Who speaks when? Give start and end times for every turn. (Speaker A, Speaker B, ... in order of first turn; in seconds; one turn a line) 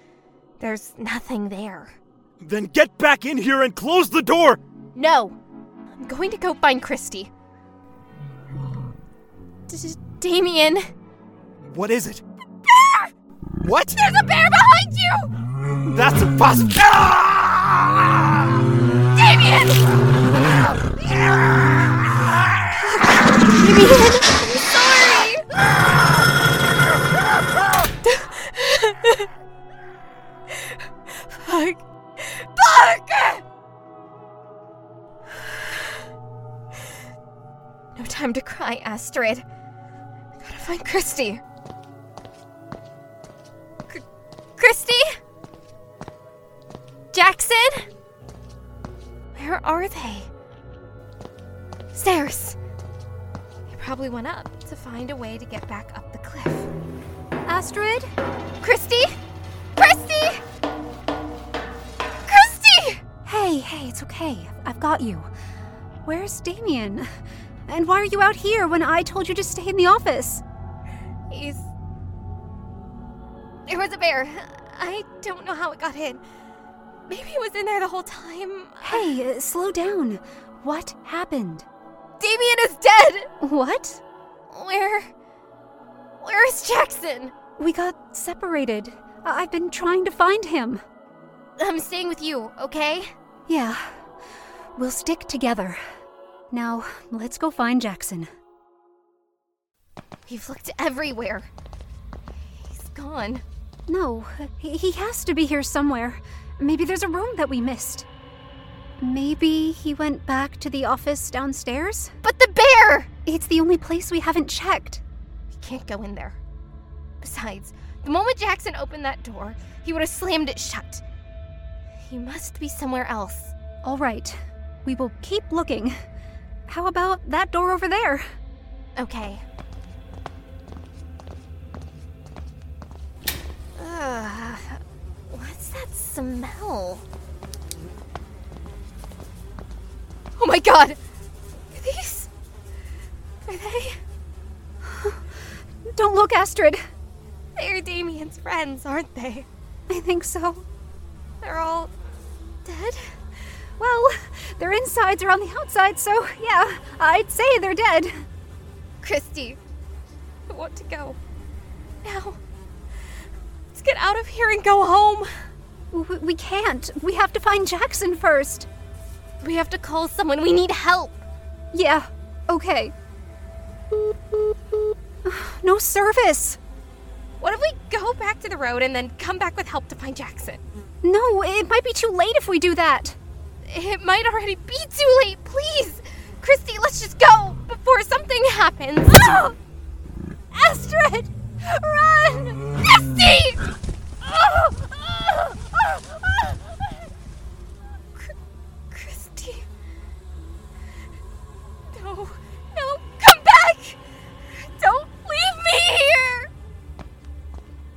Speaker A: 0.6-1.9
Speaker B: 2.4-4.6
Speaker A: 5.0-5.4
Speaker A: 6.0-7.3
Speaker A: 9.7-10.9
Speaker B: 11.6-12.2
Speaker B: 13.6-14.0
Speaker A: 14.0-15.3
Speaker B: 15.9-18.1
Speaker A: 19.2-20.0
Speaker A: 22.9-25.4
Speaker A: 28.0-29.3
Speaker A: 31.3-33.4
Speaker A: 38.0-39.4
Speaker A: 40.4-41.4
Speaker A: 44.6-45.2
Speaker A: 47.1-47.9
Speaker A: 49.4-50.3
Speaker A: 51.9-52.6
Speaker A: 53.7-56.7
Speaker C: 57.5-58.1
Speaker A: 58.6-59.1
Speaker A: 59.8-60.4
Speaker A: 62.3-63.0
Speaker C: 63.2-65.3
Speaker C: 66.1-67.1
Speaker C: 67.7-70.4
Speaker A: 71.3-71.7
Speaker A: 73.7-76.2
Speaker A: 77.1-79.2
Speaker C: 78.8-81.7
Speaker A: 82.2-83.3
Speaker C: 83.4-84.0
Speaker A: 84.5-85.1
Speaker A: 86.2-87.3
Speaker C: 87.6-90.8
Speaker A: 91.6-93.1
Speaker C: 93.5-93.8
Speaker C: 94.8-95.8
Speaker C: 96.5-98.3
Speaker A: 100.3-101.5
Speaker A: 102.7-103.4
Speaker C: 103.9-108.1
Speaker C: 109.0-112.1
Speaker A: 112.2-113.1
Speaker C: 113.3-115.0
Speaker A: 115.5-116.4
Speaker A: 117.2-121.0
Speaker A: 122.0-123.5
Speaker C: 123.8-126.0
Speaker C: 126.7-128.3
Speaker A: 129.0-129.4
Speaker A: 133.8-137.0
Speaker A: 140.4-141.0
Speaker A: 141.7-142.3
Speaker A: 143.5-144.0
Speaker C: 144.8-145.2
Speaker C: 145.9-146.8
Speaker A: 147.6-149.5
Speaker C: 149.9-150.7
Speaker A: 151.4-151.9
Speaker A: 152.7-153.1
Speaker C: 153.8-158.2
Speaker A: 159.0-159.6
Speaker A: 160.5-161.2
Speaker A: 162.0-162.4
Speaker A: 163.8-165.3
Speaker C: 165.9-168.7
Speaker A: 169.4-171.2
Speaker C: 171.7-172.9
Speaker C: 175.2-176.6
Speaker A: 177.4-180.6
Speaker C: 181.0-183.2
Speaker A: 183.7-189.5
Speaker C: 189.1-189.5
Speaker C: 190.5-191.3
Speaker A: 191.6-193.6
Speaker A: 194.3-196.0
Speaker A: 198.9-199.7
Speaker A: 201.9-204.0
Speaker A: 204.6-206.5